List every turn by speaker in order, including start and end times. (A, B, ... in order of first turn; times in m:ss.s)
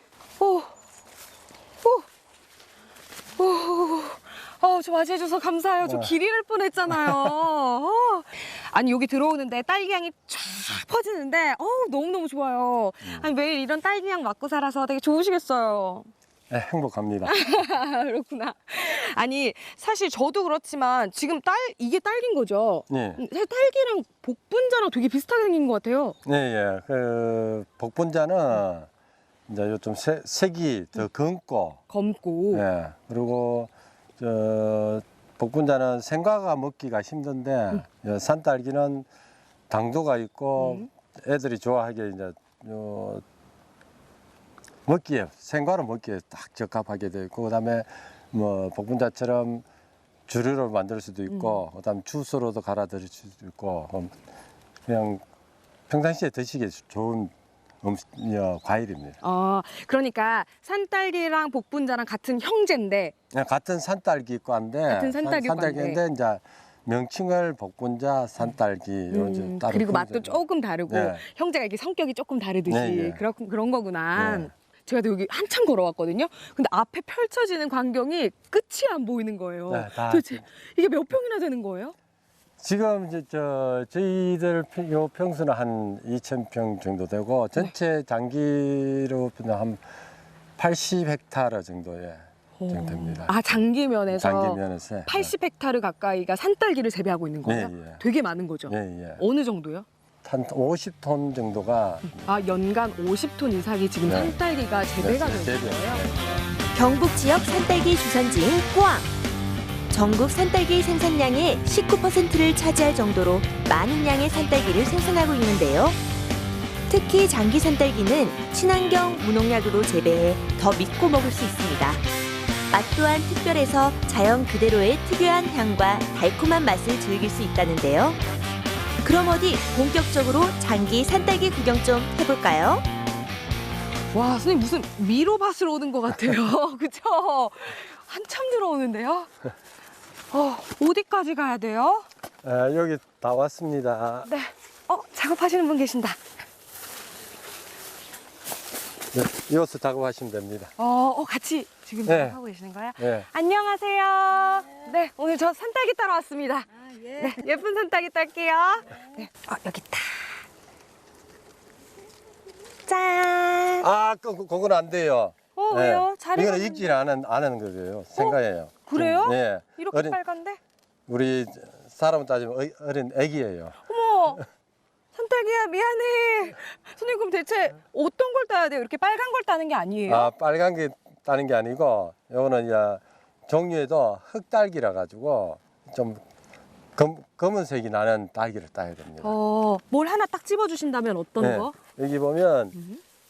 0:00.4-0:00.7 A
0:03.4-0:16.1 A
0:05.8-0:06.1 B
0:06.9-0:07.3 B
0:16.5-0:17.6 B
0:17.3-0:26.2 A
0:22.9-0:23.2 B
0:26.2-0:28.9 B
0:29.5-0:31.8 B
0:31.9-0:32.6 A
0:32.5-0:39.1 B
0:39.7-0:43.2 B
0:40.6-0:40.9 A
0:44.9-0:49.6 B
0:50.3-0:54.2 B
0:51.3-0:51.6 A
0:54.9-0:55.2 B
0:55.9-0:59.2 B
0:59.2-1:03.1 A
1:03.3-1:11.2 B
1:04.9-1:06.0 A
1:09.1-1:22.0 A
1:12.7-1:13.2 B
1:14.2-1:14.5 B
1:19.7-1:20.4 B
1:22.6-1:29.8 B
1:30.6-1:35.3 B
1:32.6-1:39.9 A
1:37.4-1:38.0 B
1:38.7-1:39.2 B
1:40.2-1:42.2 B
1:42.0-1:46.0 A
1:44.0-1:44.4 B
1:45.0-1:46.5 B
1:46.8-1:49.1 C
1:49.9-1:56.0 C
1:56.9-2:02.0 C
2:02.7-2:08.2 C
2:09.0-2:12.9 C
2:14.1-2:19.3 A
2:20.3-2:22.1 A
2:22.4-2:24.3 B
2:24.3-2:26.2 A
2:29.1-2:30.7 B
2:30.8-2:40.4 A
2:32.0-2:32.4 B
2:33.0-2:33.3 B
2:42.9-2:43.9 A
2:43.8-2:50.2 B
2:45.6-2:46.9 A
2:48.2-2:50.6 A
2:51.1-2:53.8 B
2:53.9-2:54.4 A
2:55.1-3:00.3 A
3:00.1-3:06.2 B
3:07.0-3:09.4 B
3:09.2-3:11.8 A
3:11.4-3:12.8 B
3:12.8-3:13.0 A